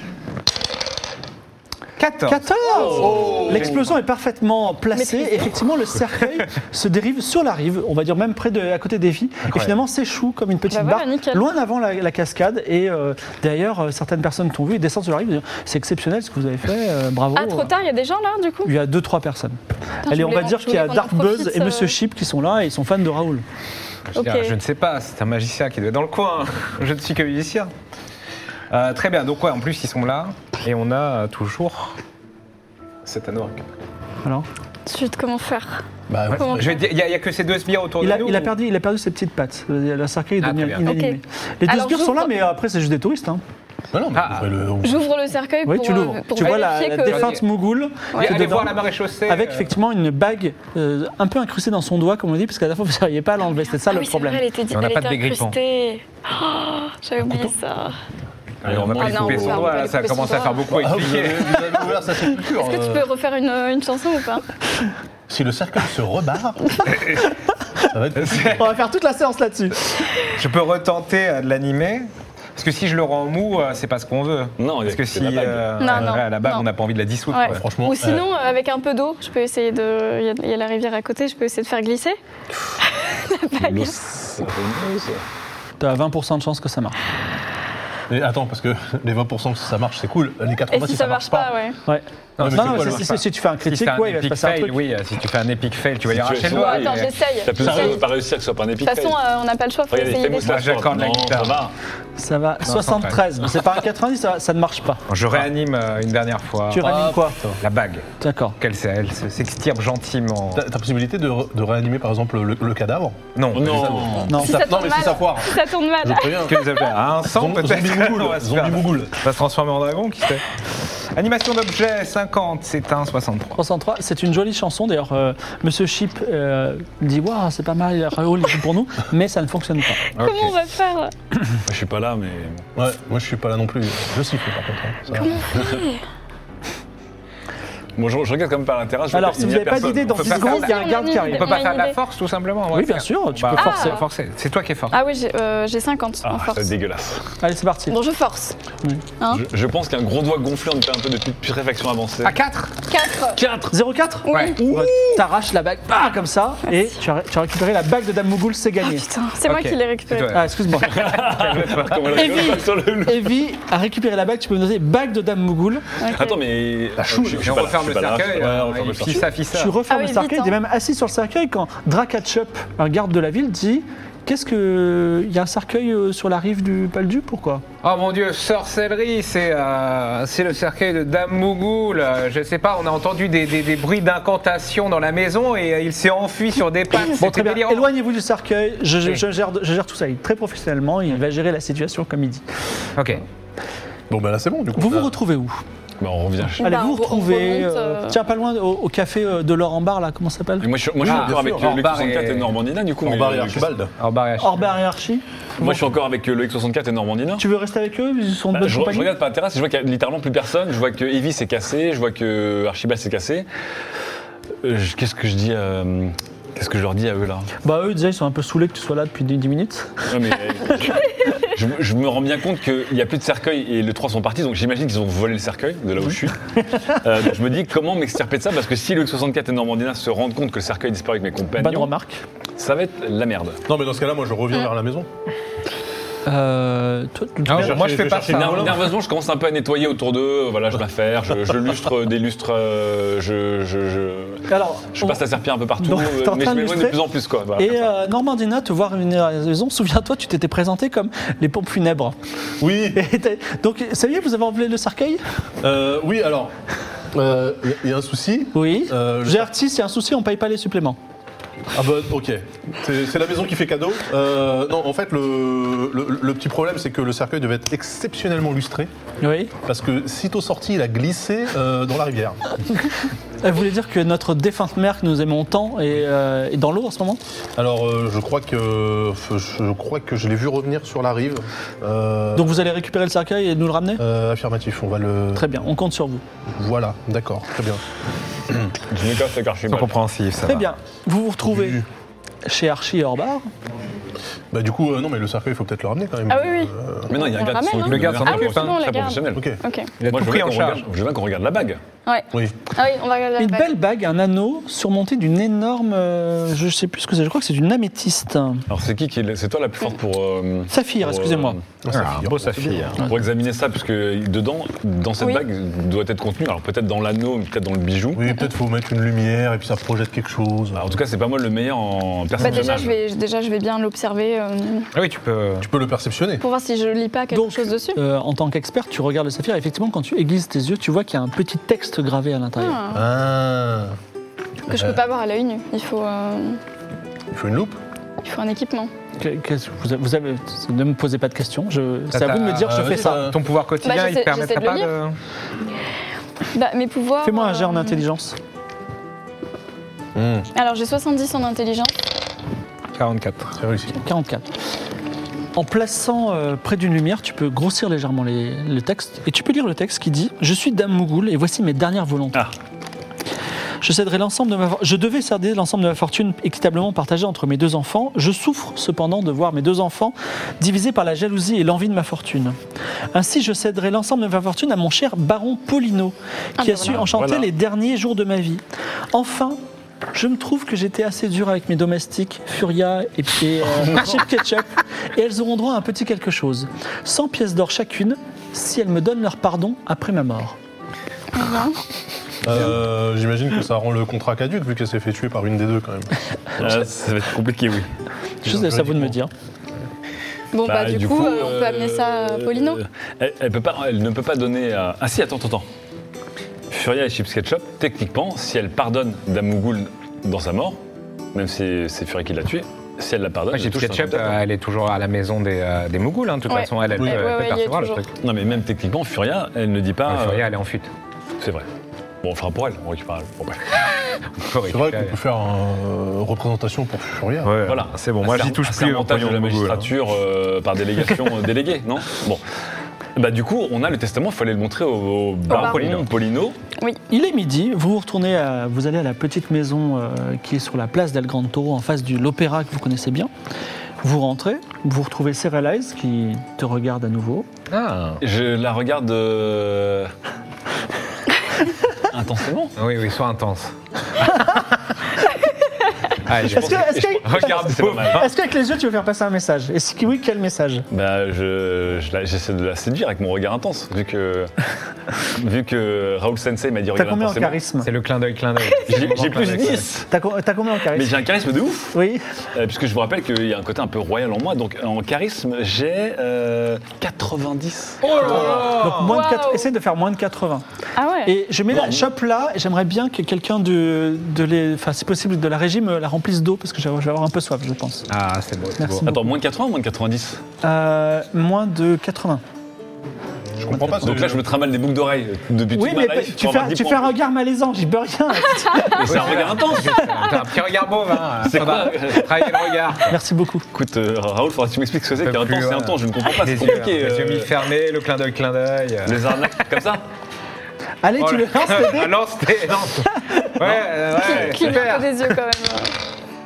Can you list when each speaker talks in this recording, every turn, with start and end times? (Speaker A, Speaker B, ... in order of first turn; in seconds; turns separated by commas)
Speaker A: 2.0-3.0, Speaker B: 2.3-17.7, Speaker C: 2.8-3.7, Speaker D: 2.8-3.8, Speaker E: 4.9-5.5, Speaker A: 9.5-9.7, Speaker E: 10.7-11.4, Speaker E: 17.3-18.7, Speaker B: 18.6-23.4, Speaker E: 20.1-21.9, Speaker A: 24.1-27.7, Speaker E: 24.1-24.6, Speaker A: 28.7-32.0, Speaker A: 33.0-33.6, Speaker E: 34.9-36.8, Speaker D: 36.1-36.8, Speaker A: 36.4-38.5, Speaker B: 38.0-43.4, Speaker A: 40.4-40.9, Speaker E: 40.8-42.3, Speaker D: 43.9-45.1, Speaker A: 44.1-44.5, Speaker E: 44.8-47.4, Speaker B: 45.6-48.7, Speaker A: 47.0-47.4, Speaker E: 48.1-48.4, Speaker A: 48.2-49.7, Speaker B: 49.3-54.4, Speaker E: 53.8-58.0, Speaker A: 54.7-55.5, Speaker A: 58.6-61.7, Speaker C: 58.6-59.8, Speaker E: 58.9-60.7, Speaker D: 60.7-63.1, Speaker E: 62.5-64.4, Speaker D: 65.3-66.6, Speaker A: 66.8-67.3, Speaker D: 67.9-68.6, Speaker A: 68.2-68.6, Speaker B: 68.5-69.9, Speaker A: 70.4-77.6, Speaker C: 74.6-75.9, Speaker E: 75.8-76.7, Speaker E: 77.3-82.2, Speaker D: 77.5-78.2, Speaker E: 83.0-83.9, Speaker C: 83.6-85.2, Speaker B: 85.8-87.0, Speaker D: 88.1-91.5, Speaker E: 90.7-91.8, Speaker B: 91.8-94.7, Speaker A: 92.4-97.1, Speaker D: 92.4-93.1, Speaker C: 96.0-99.2, Speaker E: 96.4-98.1, Speaker E: 98.8-100.6, Speaker C: 99.9-101.7, Speaker A: 100.4-101.6, Speaker B: 102.2-105.0, Speaker A: 102.7-103.2, Speaker A: 105.1-107.0, Speaker B: 106.7-107.4, Speaker D: 106.8-107.6, Speaker A: 107.6-108.0, Speaker B: 108.2-108.6, Speaker A: 108.6-110.6, Speaker D: 110.5-116.6, Speaker A: 113.3-114.3, Speaker C: 113.5-114.4, Speaker B: 114.3-114.6, Speaker E: 114.3-117.0, Speaker A: 116.5-120.4, Speaker D: 117.3-119.2, Speaker A: 121.1-123.6, Speaker B: 123.5-130.0, Speaker A: 130.2-130.5, Speaker E: 130.2-131.1, Speaker C: 131.7-132.7, Speaker D: 132.8-135.4, Speaker E: 135.2-136.0, Speaker C: 138.0-140.2, Speaker B: 139.1-141.5, Speaker A: 140.1-144.9, Speaker E: 140.3-142.0, Speaker B: 142.7-144.0, Speaker E: 143.6-144.0, Speaker E: 144.9-146.7, Speaker C: 146.2-147.3, Speaker B: 147.4-148.0, Speaker E: 147.9-148.6, Speaker C: 149.3-152.3, Speaker A: 152.2-152.7, Speaker E: 152.9-153.4, Speaker C: 153.3-153.7, Speaker B: 153.7-159.1, Speaker E: 154.2-154.6, Speaker A: 154.3-154.6, Speaker C: 154.6-155.2, Speaker E: 158.8-160.3, Speaker A: 159.4-162.6, Speaker B: 160.3-161.1, Speaker C: 160.9-163.4, Speaker B: 162.1-165.8, Speaker E: 166.0-166.4, Speaker C: 166.1-169.2, Speaker D: 167.0-167.7, Speaker A: 167.4-169.8, Speaker D: 168.4-169.2, Speaker B: 169.5-177.6, Speaker E: 169.9-170.6, Speaker A: 177.8-187.9, Speaker B: 187.1-192.4, Speaker A: 193.0-193.2, Speaker D: 194.1-195.1, Speaker B: 194.8-195.6, Speaker C: 196.0-196.8, Speaker E: 196.6-198.2, Speaker B: 196.6-200.7, Speaker C: 200.6-203.7, Speaker A: 201.0-202.5, Speaker D: 201.1-201.9, Speaker D: 203.0-203.9, Speaker A: 204.0-204.6, Speaker B: 204.4-205.8, Speaker C: 205.6-207.4, Speaker B: 207.4-209.1, Speaker C: 208.5-213.4, Speaker C: 214.6-217.5, Speaker B: 217.6-220.0, Speaker C: 220.1-231.9, Speaker B: 231.6-232.2, Speaker C: 232.6-233.6, Speaker D: 233.7-235.1, Speaker B: 236.2-237.9, Speaker A: 237.5-238.8, Speaker D: 237.5-238.9, Speaker C: 238.3-247.9, Speaker B: 244.5-245.2, Speaker B: 245.8-247.0, Speaker B: 247.6-252.2, Speaker D: 252.6-253.0, Speaker B: 252.9-255.2, Speaker D: 255.6-256.5, Speaker D: 257.1-259.5, Speaker B: 258.5-261.0, Speaker D: 261.7-268.9, Speaker B: 269.2-269.5, Speaker D: 269.6-272.4, Speaker B: 273.4-277.2, Speaker D: 277.6-282.6, Speaker B: 282.4-284.0, Speaker D: 284.0-285.6, Speaker B: 285.3-286.2, Speaker D: 286.5-287.8, Speaker C: 288.9-290.0, Speaker A: 289.7-290.7, Speaker B: 290.4-291.8, Speaker D: 291.4-291.9, Speaker B: 292.4-293.5, Speaker D: 294.5-297.1, Speaker E: 296.3-299.9, Speaker C: 297.1-301.8, Speaker A: 297.8-298.8, Speaker D: 299.3-299.6, Speaker A: 300.0-300.8, Speaker E: 302.1-303.7, Speaker B: 303.4-308.6, Speaker C: 308.7-311.6, Speaker B: 310.7-311.6, Speaker D: 311.8-313.0, Speaker A: 311.9-313.1, Speaker C: 313.0-318.3, Speaker E: 315.2-315.4, Speaker D: 318.1-321.0, Speaker C: 320.7-323.0, Speaker E: 322.4-324.9, Speaker A: 324.9-325.7, Speaker D: 325.6-326.4, Speaker E: 326.4-328.0, Speaker B: 327.3-332.8, Speaker E: 332.6-333.1, Speaker D: 332.9-333.9, Speaker E: 334.7-336.6, Speaker D: 334.7-335.0, Speaker D: 337.3-337.8, Speaker E: 338.2-338.9, Speaker B: 339.2-343.3, Speaker A: 342.1-345.1, Speaker D: 342.6-343.4, Speaker E: 343.8-344.9, Speaker E: 346.5-348.0, Speaker B: 347.2-348.4, Speaker D: 350.1-350.5, Speaker E: 350.5-351.9, Speaker A: 352.9-353.5, Speaker D: 353.6-353.9, Speaker B: 354.0-354.5, Speaker B: 355.5-362.4, Speaker B: 363.8-372.6, Speaker B: 373.1-379.6, Speaker E: 376.6-377.0, Speaker C: 376.9-377.5, Speaker B: 380.1-390.6, Speaker E: 391.3-391.8, Speaker D: 392.4-396.8, Speaker C: 396.6-397.9, Speaker B: 398.4-399.3, Speaker D: 398.5-399.0, Speaker E: 400.5-402.8, Speaker C: 400.6-405.7, Speaker C: 406.7-410.8, Speaker C: 411.3-414.4, Speaker A: 413.5-418.1, Speaker E: 416.5-418.0, Speaker D: 417.0-417.2, Speaker C: 418.2-420.4, Speaker A: 420.1-420.9, Speaker C: 421.4-421.7, Speaker C: 422.2-423.6, Speaker A: 424.4-425.1, Speaker D: 424.7-427.5, Speaker A: 427.4-429.9, Speaker C: 427.6-432.4, Speaker C: 433.1-436.6, Speaker E: 435.5-435.8, Speaker A: 435.5-436.1, Speaker B: 437.1-443.3, Speaker B: 444.0-447.5, Speaker A: 447.7-448.2, Speaker C: 448.2-450.1, Speaker C: 452.1-452.7, Speaker A: 452.8-453.7, Speaker A: 456.2-458.3, Speaker C: 456.4-458.3, Speaker B: 456.5-460.9, Speaker C: 460.9-464.5, Speaker C: 465.3-467.6, Speaker B: 466.9-467.9, Speaker A: 467.8-469.9, Speaker C: 468.9-470.1, Speaker B: 470.1-471.1, Speaker C: 470.9-471.9, Speaker B: 471.9-472.2, Speaker C: 472.5-478.6, Speaker A: 478.0-479.2, Speaker B: 478.4-480.6, Speaker E: 479.0-479.7, Speaker E: 481.0-481.3, Speaker B: 481.2-488.1, Speaker C: 481.7-482.1, Speaker A: 488.1-489.1, Speaker B: 488.8-489.3, Speaker C: 489.1-490.4, Speaker B: 490.6-492.4, Speaker D: 493.6-494.4, Speaker C: 493.8-497.1, Speaker B: 495.7-499.5, Speaker C: 499.0-500.2, Speaker A: 499.1-503.1, Speaker C: 501.4-502.3, Speaker B: 503.1-503.6, Speaker C: 503.7-507.5, Speaker A: 505.2-509.4, Speaker C: 509.1-510.0, Speaker B: 511.0-512.1, Speaker A: 511.2-515.2, Speaker B: 513.2-513.5, Speaker E: 514.1-515.9, Speaker C: 514.2-514.8